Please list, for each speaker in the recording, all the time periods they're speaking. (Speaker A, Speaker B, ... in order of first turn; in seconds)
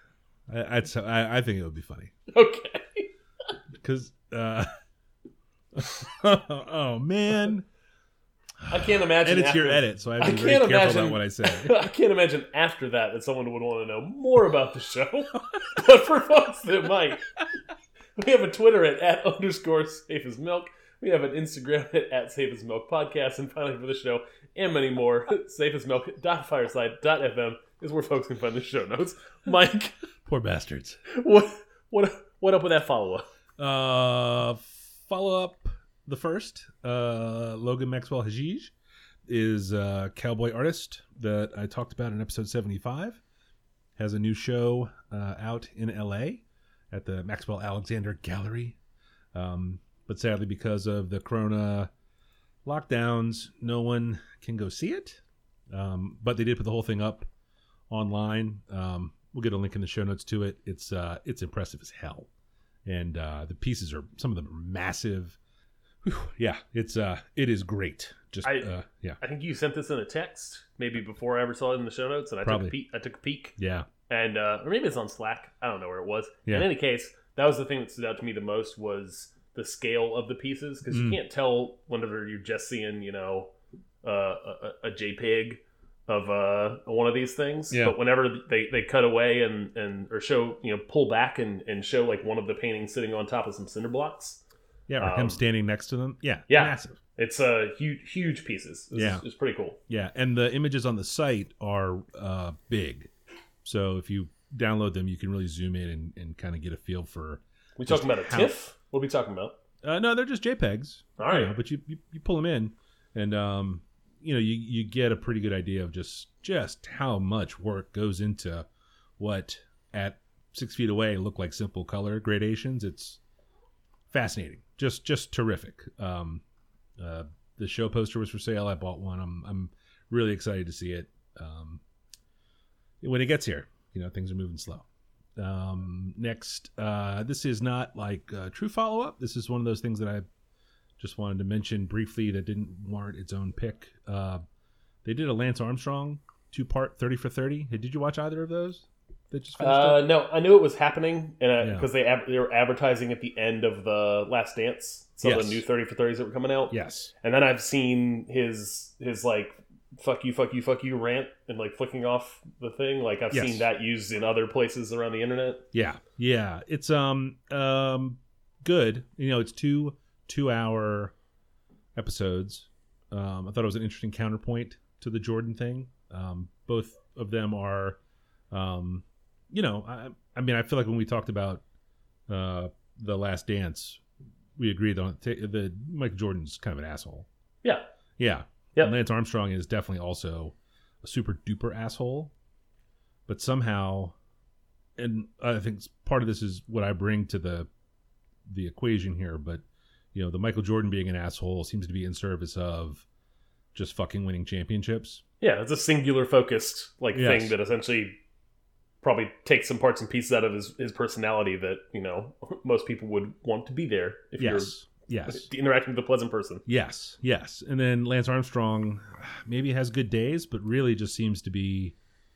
Speaker A: 0.5-2.1, 3.8-4.7, 5.8-7.7, 8.7-11.8, 30.3-31.0, 33.6-38.7, 39.3-43.2, 44.0-48.8, 49.3-51.9, 52.6-57.3, 57.9-62.3, 62.9-65.4, 66.0-69.2, 72.5-72.8, 73.6-73.9, 80.9-81.2, 87.7-88.0, 94.9-97.0, 98.9-99.2, 99.9-103.1, 103.6-108.5, 109.8-118.7, 119.2-123.2, 124.1-126.4, 127.0-131.8, 133.0-134.9, 135.4-140.3, 141.0-144.4, 145.0-150.1, 151.6-151.9, 155.2-155.6, 156.7-157.1, 163.3-163.7, 165.7-171.1, 171.9-178.0, 178.5-181.6, 182.3-184.0, 184.6-187.3, 188.2-192.3, 193.3-194.2, 195.0-197.7, 198.5-199.6, 200.1-203.1, 203.7-205.2, 207.1-207.6, 214.4-215.5, 216.7-221.9
Speaker B: 2.3-3.1, 8.7-17.3, 18.2-29.9, 31.1-33.2, 68.4-68.7, 69.2-73.6, 74.1-83.5, 84.0-94.4, 95.0-95.4, 96.5-99.8, 107.8-109.5, 111.2-111.5, 149.6-165.6, 205.4-208.2, 209.0-216.6